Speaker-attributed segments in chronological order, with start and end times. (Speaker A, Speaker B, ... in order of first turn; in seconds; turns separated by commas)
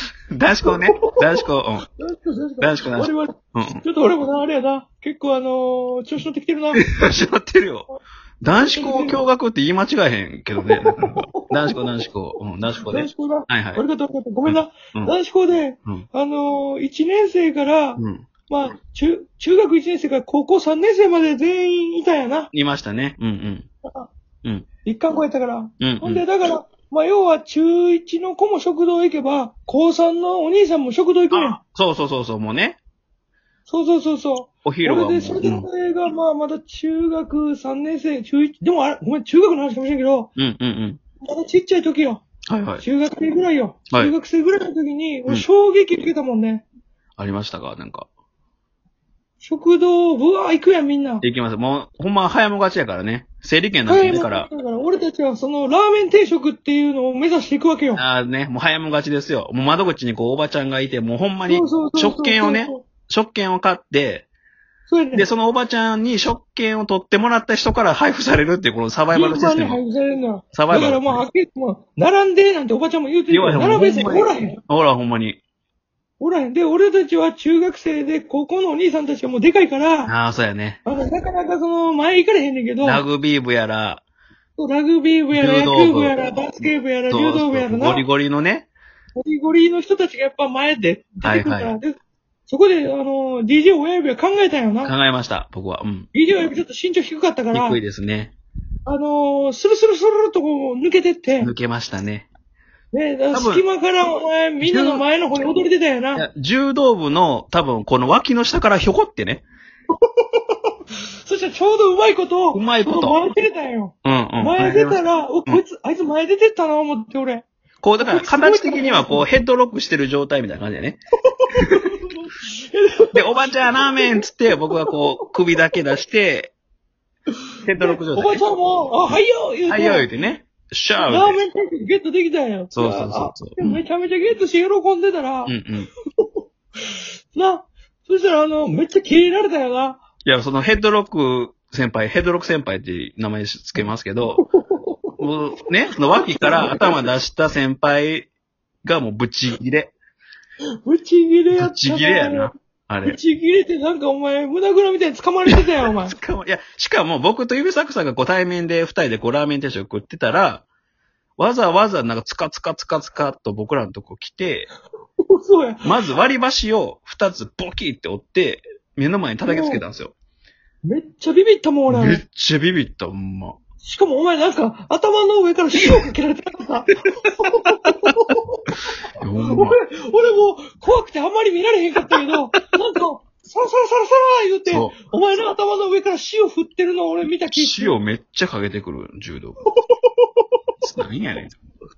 Speaker A: 0.3-1.9, Speaker B: 0.7-1.1, Speaker B: 2.0-6.8, Speaker A: 2.6-3.8, Speaker A: 6.7-7.9, Speaker A: 8.4-13.8, Speaker B: 8.5-9.2, Speaker B: 10.7-11.8, Speaker B: 12.8-22.5, Speaker A: 14.5-15.1, Speaker A: 18.0-18.3, Speaker A: 22.5-23.7, Speaker B: 24.9-31.6, Speaker A: 25.8-26.2, Speaker A: 31.3-32.8, Speaker B: 33.7-40.3, Speaker A: 34.6-35.7, Speaker A: 40.4-41.0, Speaker B: 41.2-42.2, Speaker A: 42.5-42.8, Speaker B: 42.8-46.6, Speaker A: 47.2-48.1, Speaker B: 49.4-51.2, Speaker A: 51.2-54.5, Speaker B: 53.9-58.0, Speaker A: 58.0-64.3, Speaker B: 61.5-62.9, Speaker B: 64.9-65.3, Speaker A: 65.1-69.8, Speaker B: 69.1-74.6, Speaker A: 70.5-71.2, Speaker A: 73.3-75.4, Speaker B: 76.2-80.2, Speaker A: 80.1-80.8, Speaker B: 80.8-83.0, Speaker A: 82.8-84.0, Speaker B: 84.6-88.0, Speaker A: 85.3-86.2, Speaker A: 87.1-88.7, Speaker B: 89.2-95.0, Speaker A: 91.2-91.8, Speaker A: 94.8-96.1, Speaker B: 96.1-97.8, Speaker A: 97.5-98.3, Speaker B: 98.9-101.5, Speaker A: 101.4-102.3, Speaker B: 102.9-106.2, Speaker A: 103.3-103.7, Speaker A: 104.6-105.0, Speaker A: 106.2-109.5, Speaker B: 110.1-110.6, Speaker B: 111.2-117.5, Speaker A: 112.5-113.2, Speaker A: 114.0-115.6, Speaker A: 117.8-121.8, Speaker B: 118.0-119.3, Speaker B: 121.4-124.1, Speaker A: 123.1-126.5, Speaker A: 127.7-128.4, Speaker B: 127.8-130.1, Speaker A: 129.7-131.4, Speaker B: 131.0-135.6, Speaker A: 132.7-133.8, Speaker A: 135.5-135.9, Speaker B: 137.3-140.0, Speaker A: 140.2-144.4, Speaker B: 144.4-145.1, Speaker A: 145.2-148.3, Speaker B: 146.1-147.0, Speaker A: 148.8-149.9, Speaker B: 150.8-152.5, Speaker A: 151.6-153.2, Speaker B: 153.1-156.2, Speaker A: 155.5-160.7, Speaker A: 161.4-164.7, Speaker B: 165.2-166.0, Speaker A: 165.8-170.1, Speaker B: 169.4-169.8, Speaker B: 170.8-172.2, Speaker A: 171.9-173.6, Speaker B: 173.8-178.8, Speaker A: 179.2-179.8, Speaker B: 179.5-187.9, Speaker A: 184.7-184.9, Speaker A: 187.5-189.6, Speaker B: 189.8-190.1, Speaker A: 190.8-191.6